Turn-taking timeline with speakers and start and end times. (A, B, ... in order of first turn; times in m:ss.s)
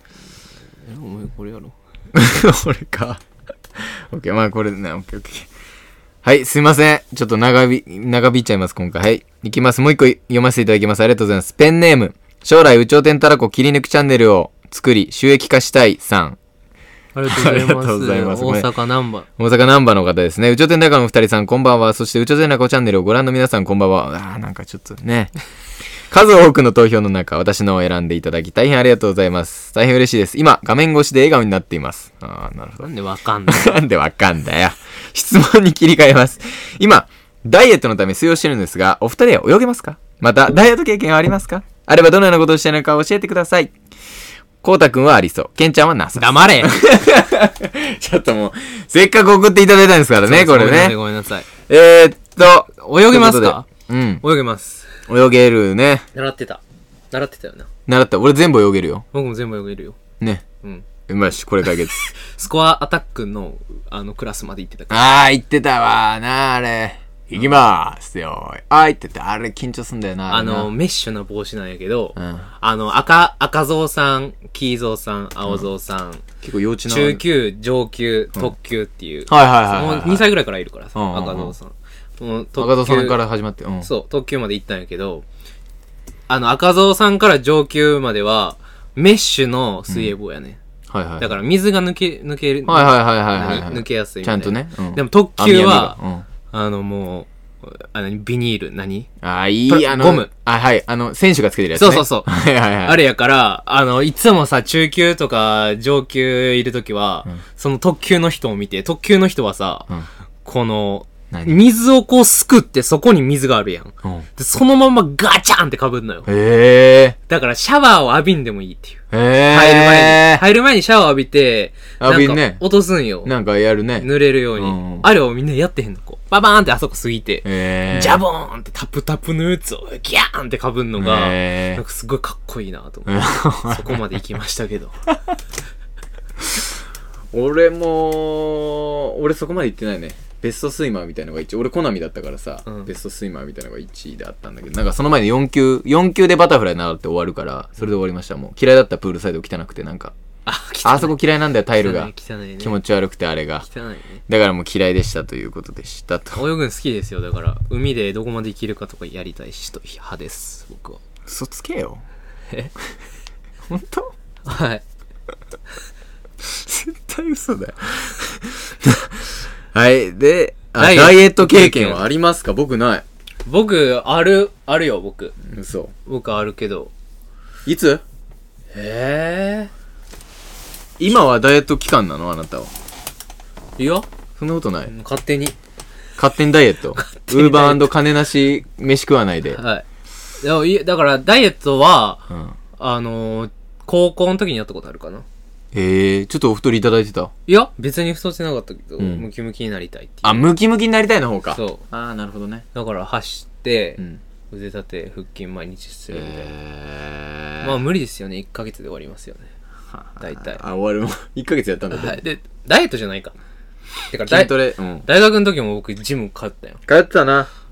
0:00.8-0:01.8 A
0:02.1-0:03.2 B
0:03.8-0:05.5 B
0:06.2-0:16.4 B
0:17.2-0:19.3 A
0:17.3-0:18.7 B
0:19.4-0:25.4 B
0:26.1-0:32.9 B
0:32.8-0:33.8 A
0:33.5-0:43.7 B
0:44.6-0:51.0 B
0:46.2-0:46.7 A
0:50.2-0:51.5 A
0:51.6-0:54.2 B
0:52.7-0:53.7 A
0:54.2-0:55.0 A
0:55.1-0:56.1 B
0:56.1-0:57.7 A
0:57.9-0:59.0 B
0:59.1-1:00.0 A
1:00.2-1:00.4 B
1:01.1-1:02.1 B
1:02.2-1:05.0 A
1:04.9-1:10.7 B
1:10.3-1:16.2 A
1:12.2-1:12.5 B
1:15.4-1:15.7 B
1:16.4-1:17.2 B
1:16.9-1:23.2 A
1:19.3-1:20.3 B
1:21.0-1:21.6 B
1:22.6-1:23.9 B
1:23.8-1:25.2 A
1:26.3-1:30.6 A
1:30.9-1:31.4 B
1:31.2-1:39.1 A
1:32.7-1:36.3 B
1:39.2-1:43.0 B
1:39.7-1:40.3 A
1:41.8-1:42.3 A
1:42.8-1:49.9 A
1:50.4-1:56.3 A
1:51.3-1:51.6 B
1:56.3-1:57.2 B
1:57.3-2:03.3 A
1:59.1-2:00.4 B
2:02.0-2:02.6 B
2:03.2-2:05.1 B
2:04.0-2:15.0 A
2:07.4-2:08.2 B
2:11.0-2:11.8 B
2:13.1-2:14.0 B
2:17.3-2:30.1 B
2:30.5-2:31.2 A
2:30.8-2:33.7 B
2:31.8-2:32.8 A
2:33.6-2:34.2 A
2:34.3-2:36.4 B
2:36.4-2:41.0 A
2:41.3-2:42.0 B
2:43.7-2:44.1 B
2:44.4-2:44.8 A
2:46.4-2:53.0 B
2:50.8-2:52.0 A
2:53.5-2:55.4 A
2:55.4-2:55.9 B
2:56.1-2:56.9 A
2:57.7-2:58.0 B
2:58.7-2:59.7 A
3:01.0-3:02.7 B
3:03.8-3:04.1 A
3:04.4-3:04.9 B
3:04.9-3:05.6 A
3:06.2-3:09.6 B
3:07.0-3:07.9 A
3:09.5-3:09.9 A
3:10.4-3:12.3 A
3:12.3-3:12.6 B
3:12.8-3:15.3 A
3:15.7-3:17.3 B
3:17.5-3:20.5 A
3:19.0-3:19.2 B
3:20.2-3:22.6 B
3:21.5-3:21.8 A
3:22.7-3:26.5 A
3:26.1-3:27.7 B
3:27.6-3:29.5 A
3:29.9-3:32.2 B
3:30.2-3:30.6 A
3:31.9-3:33.4 A
3:34.1-3:36.8 A
3:34.3-3:35.1 B
3:36.9-3:37.5 B